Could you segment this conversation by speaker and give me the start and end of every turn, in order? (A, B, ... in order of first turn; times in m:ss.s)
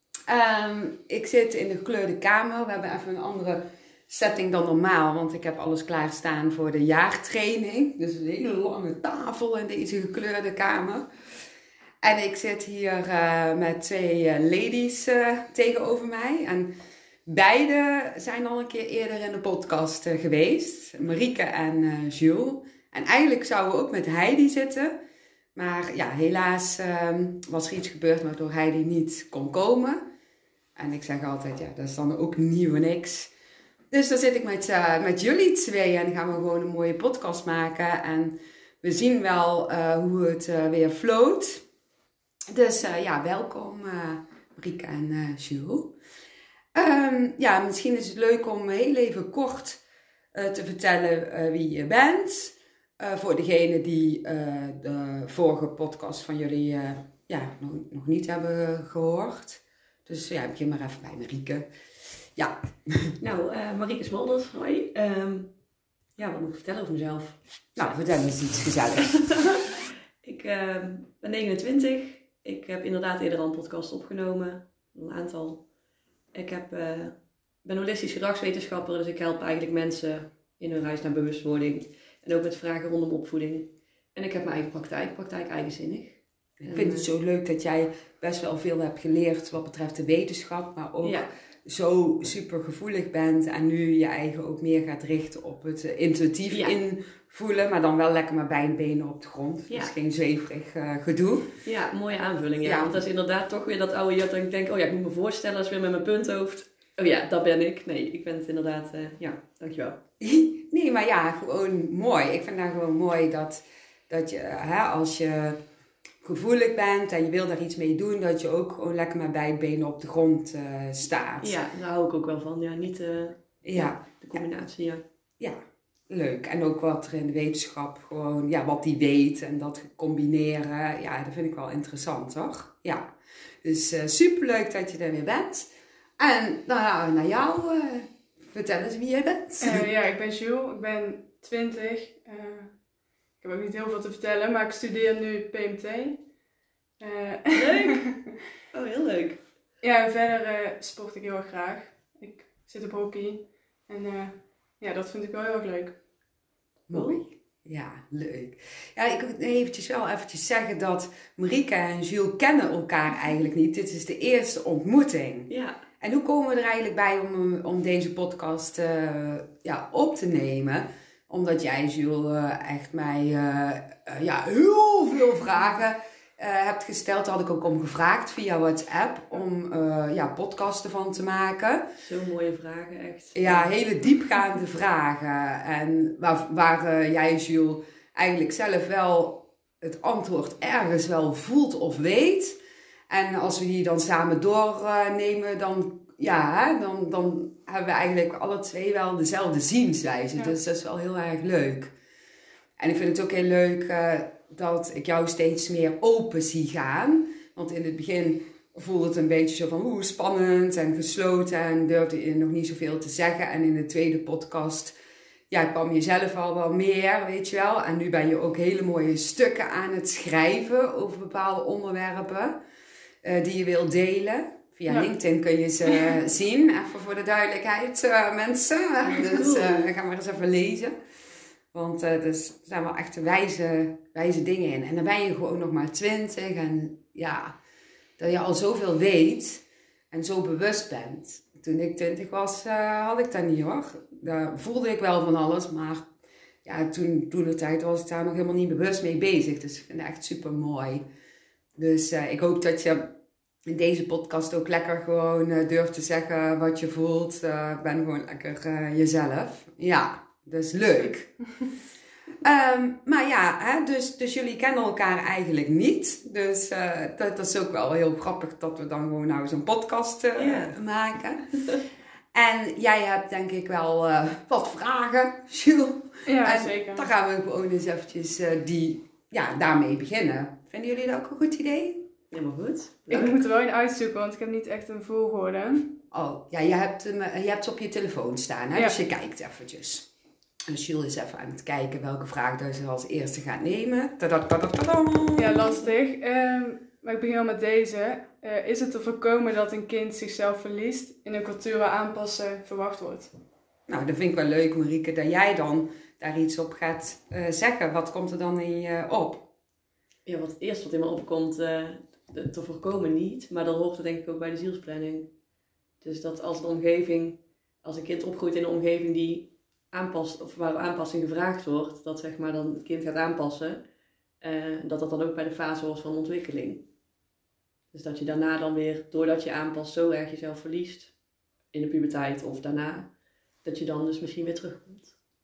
0:00.3-0:11.0 A
0:12.0-0:16.7 A
0:17.2-0:25.0 A
0:25.5-0:30.0 A
0:30.8-0:33.3 A
0:33.9-0:41.6 A
0:42.5-0:45.9 A
0:46.7-0:49.8 A
0:50.3-1:01.6 A
1:02.4-1:03.1 A
1:03.2-1:05.5 B
1:06.2-1:07.4 B
1:07.8-1:09.4 A
1:09.2-1:09.6 B
1:10.2-1:15.6 B
1:16.3-1:27.1 B
1:26.6-1:41.5 A
1:31.0-1:31.3 B
1:36.5-1:36.8 B
1:41.6-1:50.0 B
1:42.6-1:42.9 A
1:50.2-1:55.6 A
1:56.2-2:01.6 A
2:01.4-2:05.0 B
2:03.6-2:04.1 A
2:06.1-2:13.1 A
2:13.6-2:19.8 A
2:19.6-2:22.7 C
2:23.4-2:26.2 C
2:27.0-2:28.3 C
2:27.5-2:28.1 B
2:28.7-2:29.4 B
2:29.8-2:36.0 C
2:36.9-3:01.9 A
2:36.9-2:37.2 B
2:45.5-2:45.8 B
3:02.0-3:03.7 B
3:03.3-3:12.6 A
3:13.1-3:21.9 A
3:22.8-3:34.9 A
3:35.5-3:42.6 A
3:43.2-3:50.9 A
3:49.0-3:49.9 B
3:51.7-3:57.5 A
3:58.2-4:06.1 A
4:06.6-4:11.0 A
4:11.8-4:13.1 A
4:13.6-4:21.3 A
4:22.4-4:31.6 A
4:30.4-4:30.7 B
4:32.3-4:42.0 A
4:36.2-4:37.1 C
4:42.3-4:43.4 B
4:43.1-4:46.0 C
4:46.1-4:50.1 A
4:50.7-4:55.8 A
4:55.4-5:03.3 C
5:03.9-5:09.5 A
5:10.2-5:15.3 B
5:16.0-5:23.8 B
5:24.4-5:26.8 B
5:27.9-5:31.1 B
5:31.7-5:33.1 B
5:33.6-5:35.1 B